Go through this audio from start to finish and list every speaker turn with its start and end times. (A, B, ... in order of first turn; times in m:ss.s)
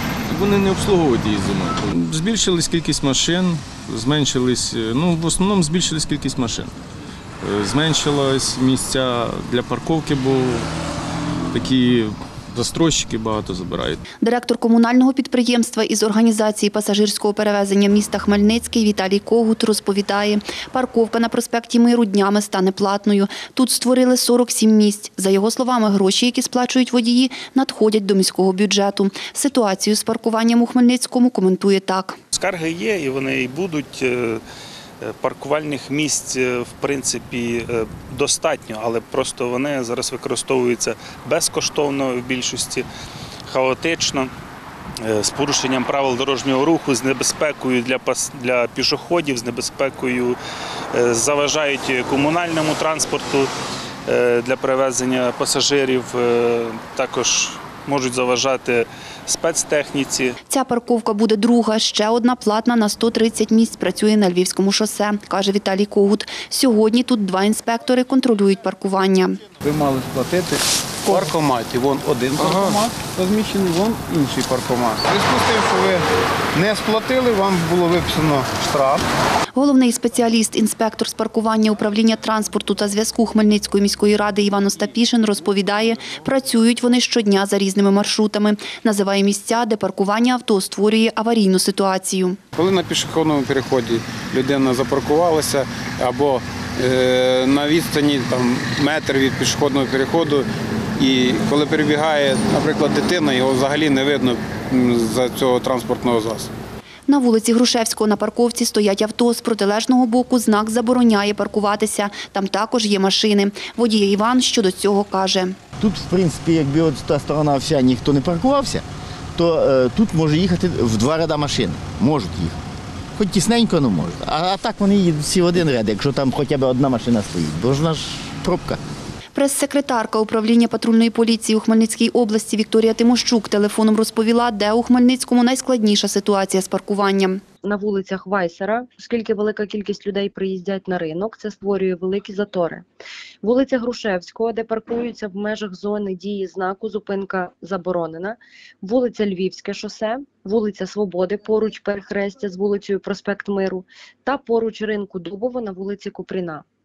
0:00.3-0:06.7 A
0:07.4-0:10.7 A
0:11.5-0:14.0 A
0:14.2-0:32.2 B
0:32.3-0:34.4 C
0:35.0-0:42.8 C
0:43.5-0:44.3 C
0:45.0-0:50.4 C
0:50.9-0:53.5 C
0:54.1-1:00.4 C
1:00.5-1:09.4 B
1:09.6-1:19.0 D
1:19.6-1:32.4 B
1:32.6-1:40.5 D
1:41.0-1:46.5 D
1:47.1-1:55.6 B
1:55.8-1:58.8 E
1:59.4-2:02.6 E
2:03.2-2:08.8 E
2:09.4-2:17.4 B
2:17.6-2:22.9 F
2:23.4-2:36.6 F